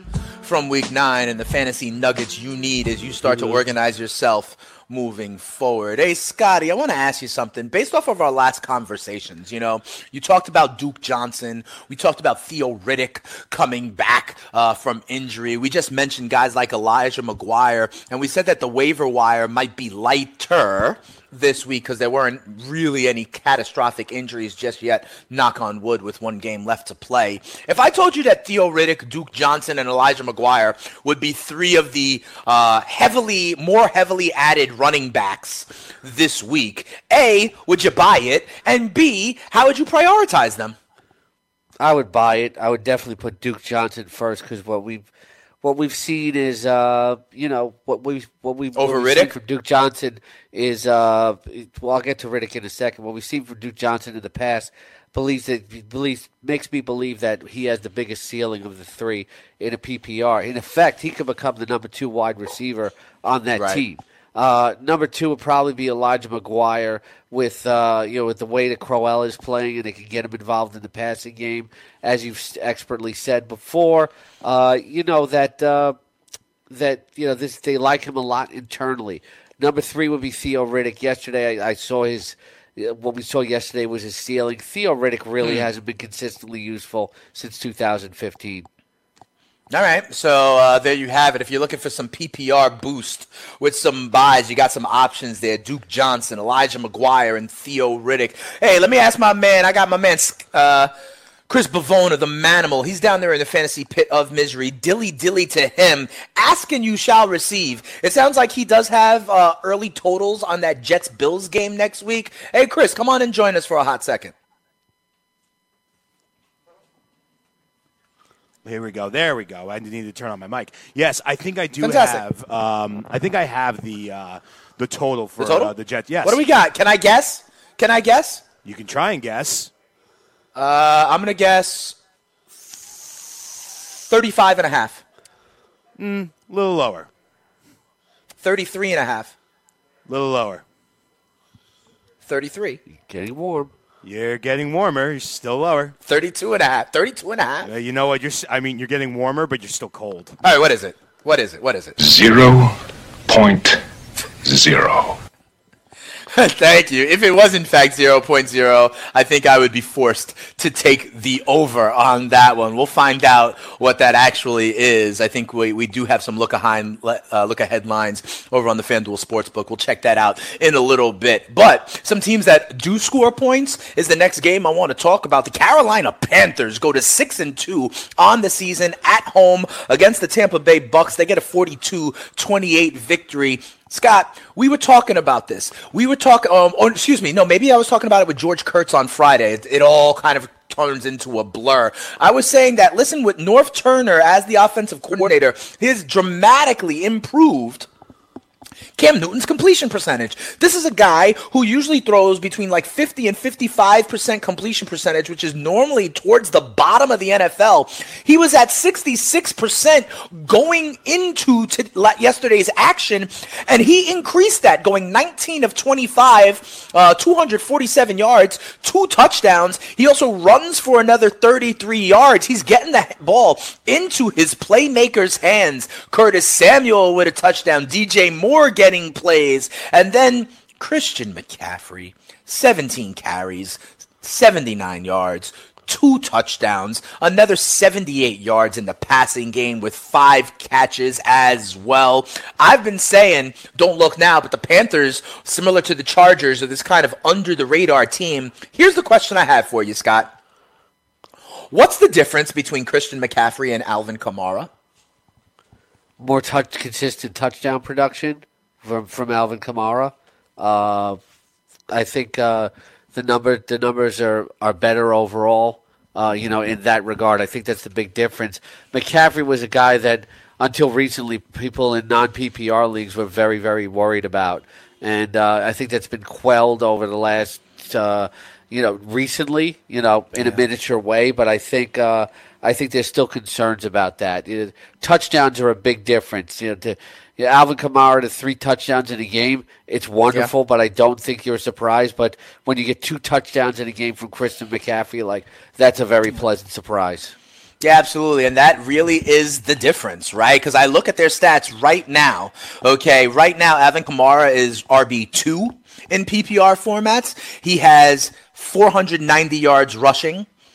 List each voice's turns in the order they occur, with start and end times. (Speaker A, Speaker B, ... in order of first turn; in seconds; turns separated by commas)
Speaker A: 0.4-40.8, Speaker B: 41.8-45.1, Speaker B: 45.6-76.0, Speaker A: 48.7-49.3, Speaker A: 63.5-63.8, Speaker B: 76.7-88.7, Speaker A: 89.7-100.9, Speaker A: 101.5-114.3, Speaker C: 118.6-126.4, Speaker A: 121.8-122.2, Speaker A: 125.4-128.4, Speaker C: 128.6-129.7, Speaker A: 130.5-132.0, Speaker A: 132.6-135.0, Speaker C: 136.0-137.1, Speaker A: 138.4-139.3, Speaker C: 140.1-140.6, Speaker A: 142.2-142.8, Speaker B: 142.9-143.7, Speaker C: 144.0-145.9, Speaker A: 146.0-147.7, Speaker C: 147.6-150.4, Speaker A: 150.4-152.0, Speaker D: 152.0-153.8, Speaker D: 154.4-155.2, Speaker A: 156.3-197.9, Speaker A: 198.9-250.3, Speaker A: 251.7-254.7, Speaker B: 256.2-261.2, Speaker B: 261.9-297.4, Speaker A: 297.8-310.5